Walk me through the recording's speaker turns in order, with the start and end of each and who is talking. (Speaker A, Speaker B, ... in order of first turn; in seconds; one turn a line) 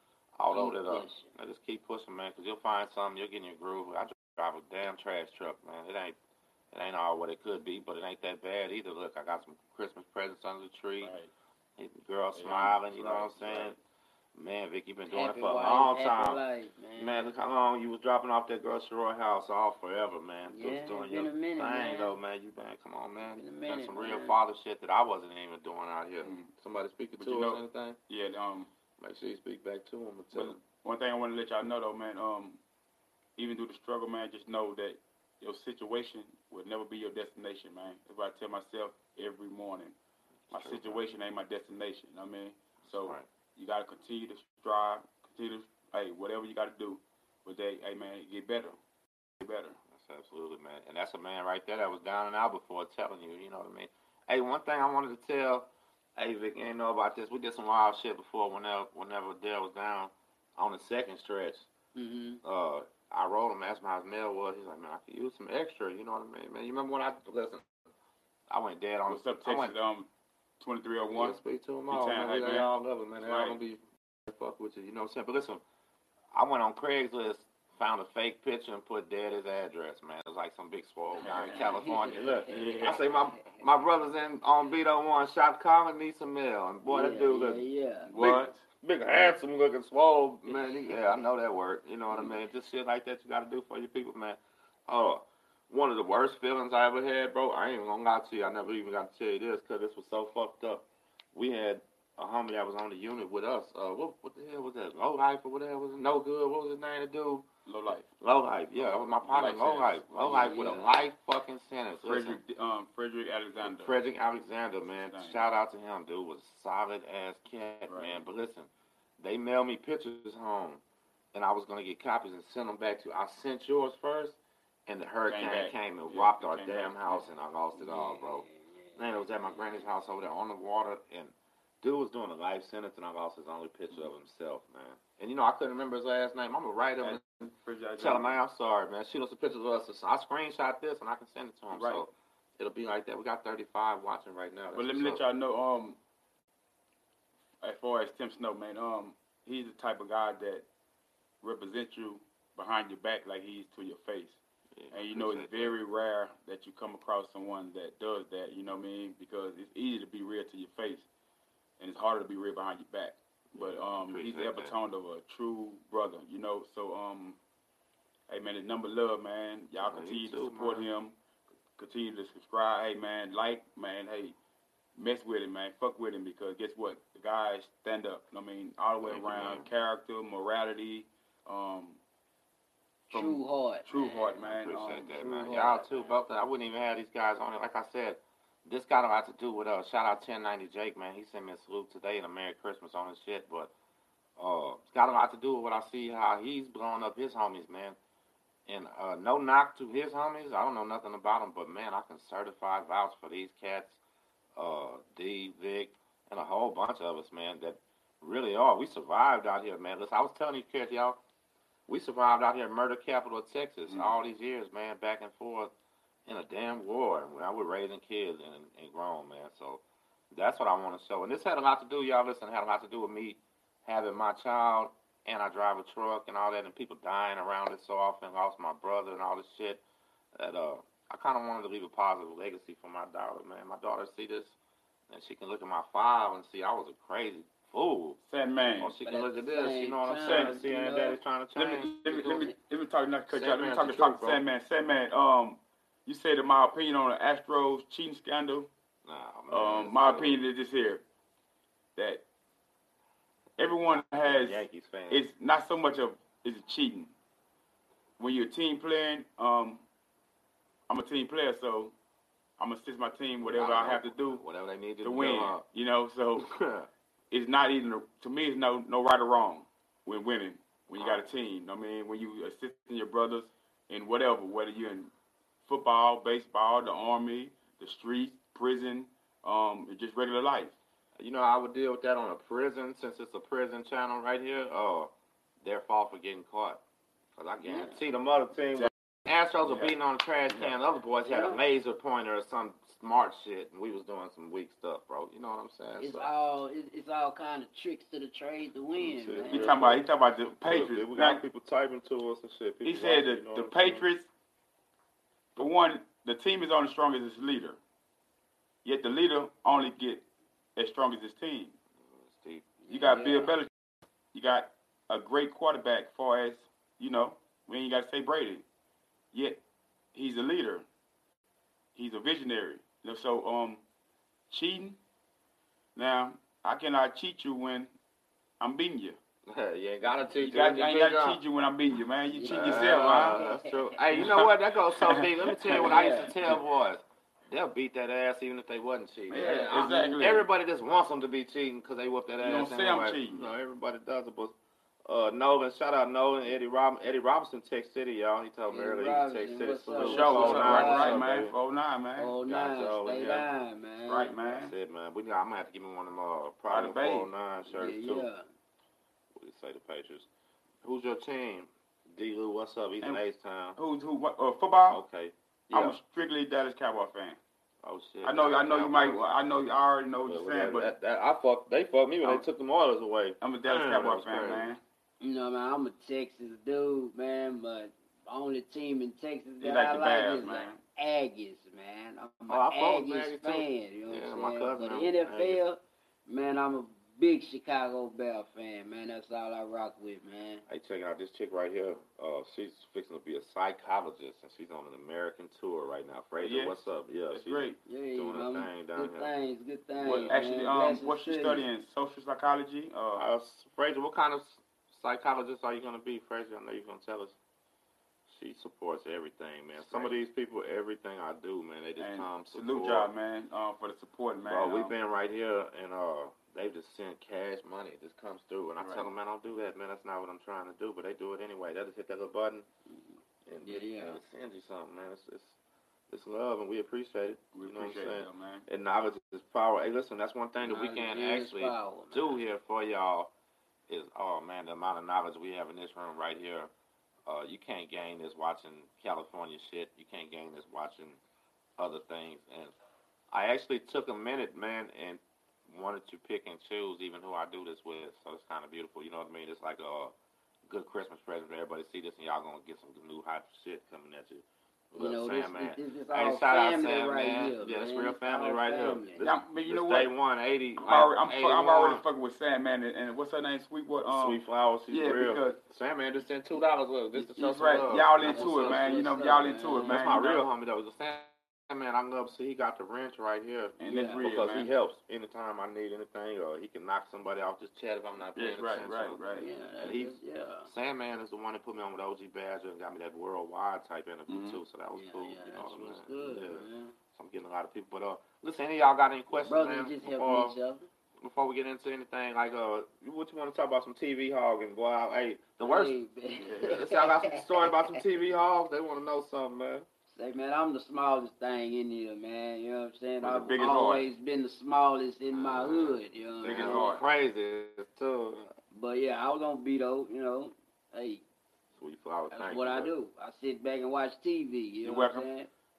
Speaker A: 0.4-6.2
Speaker B: 0.5-1.3
Speaker A: 6.7-11.1
Speaker C: 11.0-11.3
Speaker A: 11.8-13.8
Speaker C: 12.3-13.8
Speaker A: 14.3-16.4
Speaker B: 15.1-17.3
Speaker A: 17.0-28.0
Speaker B: 20.5-22.2
Speaker B: 23.3-24.4
Speaker C: 26.2-26.5
Speaker C: 27.2-28.7
Speaker A: 29.0-30.6
Speaker C: 30.3-32.6
Speaker C: 33.4-40.0
Speaker A: 40.5-41.0
Speaker C: 40.5-48.8
Speaker A: 42.8-43.3
Speaker C: 49.4-49.8
Speaker A: 49.9-61.7
Speaker B: 62.0-62.4
Speaker A: 62.4-67.7
Speaker A: 68.5-69.7
Speaker C: 69.1-70.1
Speaker C: 70.6-71.4
Speaker A: 71.1-75.6
Speaker C: 71.9-73.6
Speaker A: 76.3-87.6
Speaker C: 81.2-81.8
Speaker B: 81.5-83.0
Speaker C: 82.5-83.0
Speaker B: 86.9-88.1
Speaker C: 88.0-88.6
Speaker A: 88.2-107.5
Speaker B: 90.7-90.9
Speaker C: 107.7-108.1
Speaker A: 108.2-112.4
Speaker C: 108.8-110.8
Speaker B: 110.2-110.9
Speaker C: 112.0-114.0
Speaker A: 113.6-120.8
Speaker C: 115.0-115.4
Speaker C: 117.9-118.2
Speaker A: 121.3-145.2
Speaker C: 125.3-127.3
Speaker B: 127.8-129.9
Speaker C: 137.0-138.3
Speaker C: 141.7-142.1
Speaker C: 144.7-146.0
Speaker C: 147.6-150.7
Speaker C: 151.4-154.4
Speaker A: 154.8-155.8
Speaker C: 154.9-161.1
Speaker C: 161.8-167.4
Speaker A: 163.5-164.7
Speaker C: 168.3-171.2
Speaker A: 169.8-170.9
Speaker C: 171.8-174.4
Speaker C: 174.9-182.0
Speaker A: 179.0-179.7
Speaker B: 183.1-186.2
Speaker C: 183.1-185.1
Speaker A: 184.4-193.7
Speaker A: 194.4-198.0
Speaker A: 198.7-204.0
Speaker A: 204.6-211.2
Speaker A: 211.9-215.7
Speaker A: 216.3-229.8
Speaker A: 230.3-234.6
Speaker A: 235.1-238.2
Speaker C: 238.2-238.9
Speaker A: 238.8-242.5
Speaker B: 239.1-241.2
Speaker C: 240.2-240.6
Speaker C: 241.6-248.7
Speaker A: 243.3-244.4
Speaker A: 249.1-250.4
Speaker C: 249.5-251.0
Speaker C: 252.0-252.2
Speaker C: 253.6-257.1
Speaker A: 253.9-255.2
Speaker C: 258.2-259.8
Speaker C: 260.9-261.9
Speaker C: 262.6-264.4
Speaker A: 263.4-265.6
Speaker C: 265.0-266.5
Speaker A: 266.4-266.9
Speaker C: 267.3-275.1
Speaker A: 270.9-271.3
Speaker C: 275.6-280.8
Speaker A: 281.2-285.1
Speaker A: 285.6-286.8
Speaker A: 287.4-296.3
Speaker B: 287.6-288.0
Speaker C: 289.6-289.9
Speaker C: 290.5-290.8
Speaker B: 291.3-291.6
Speaker B: 296.0-299.8
Speaker A: 299.0-300.0
Speaker C: 299.5-301.4
Speaker A: 300.6-304.1
Speaker C: 302.8-304.3
Speaker C: 305.6-307.8
Speaker C: 308.8-310.2
Speaker C: 310.8-311.8
Speaker A: 312.2-312.7
Speaker B: 312.8-313.6
Speaker C: 312.9-313.7
Speaker C: 314.3-318.6
Speaker C: 319.3-319.6
Speaker C: 320.1-320.9
Speaker C: 321.9-323.8
Speaker C: 324.5-325.0
Speaker C: 325.9-327.9
Speaker C: 328.6-329.2
Speaker A: 329.5-331.4
Speaker C: 330.4-333.4
Speaker B: 332.3-334.0
Speaker A: 332.5-344.6
Speaker C: 334.1-336.6
Speaker B: 335.7-336.4
Speaker C: 339.3-340.5
Speaker B: 339.4-340.2
Speaker C: 342.4-343.5
Speaker A: 345.1-351.6
Speaker B: 348.7-351.2
Speaker C: 350.0-352.3
Speaker B: 352.2-354.4
Speaker A: 352.5-353.5
Speaker C: 354.1-354.7
Speaker A: 354.5-358.3
Speaker C: 356.7-357.3
Speaker B: 357.7-358.4
Speaker A: 359.4-360.3
Speaker A: 360.8-363.8
Speaker C: 363.8-365.0
Speaker A: 364.9-366.0
Speaker C: 365.7-367.4
Speaker A: 367.8-369.2
Speaker C: 368.2-370.9
Speaker A: 370.2-374.7
Speaker C: 373.4-374.8
Speaker B: 375.2-390.6
Speaker C: 379.6-380.8
Speaker A: 382.5-385.6
Speaker A: 390.7-399.3
Speaker C: 396.4-396.8
Speaker C: 397.3-397.8
Speaker B: 397.9-401.6
Speaker A: 400.0-400.4
Speaker C: 400.0-403.2
Speaker A: 403.1-407.4
Speaker A: 408.3-413.1
Speaker C: 409.8-410.2
Speaker C: 412.0-414.9
Speaker A: 414.5-422.7
Speaker C: 418.8-419.1
Speaker B: 422.9-424.2
Speaker A: 423.5-425.6
Speaker A: 426.1-433.3
Speaker C: 427.6-428.7
Speaker B: 430.6-432.4
Speaker A: 433.9-436.7
Speaker A: 437.3-441.2
Speaker A: 441.8-442.7
Speaker A: 443.3-450.1
Speaker A: 450.7-462.0
Speaker B: 455.0-459.2
Speaker C: 459.2-460.1
Speaker C: 460.8-465.6
Speaker A: 464.1-469.0
Speaker C: 467.2-470.5
Speaker B: 468.2-470.0
Speaker A: 469.9-479.2
Speaker C: 473.8-474.7
Speaker B: 473.9-474.2
Speaker C: 478.4-479.5
Speaker B: 479.4-480.7
Speaker A: 479.8-490.6
Speaker C: 484.3-484.6
Speaker B: 484.9-486.9
Speaker B: 489.4-490.9
Speaker A: 491.2-495.9
Speaker B: 495.6-498.0
Speaker C: 496.4-496.8
Speaker A: 496.6-499.9
Speaker B: 500.1-506.9
Speaker C: 503.2-504.1
Speaker A: 505.3-508.5
Speaker C: 506.4-507.0
Speaker B: 508.7-511.2
Speaker A: 511.8-512.9
Speaker B: 512.3-515.5
Speaker C: 514.8-515.3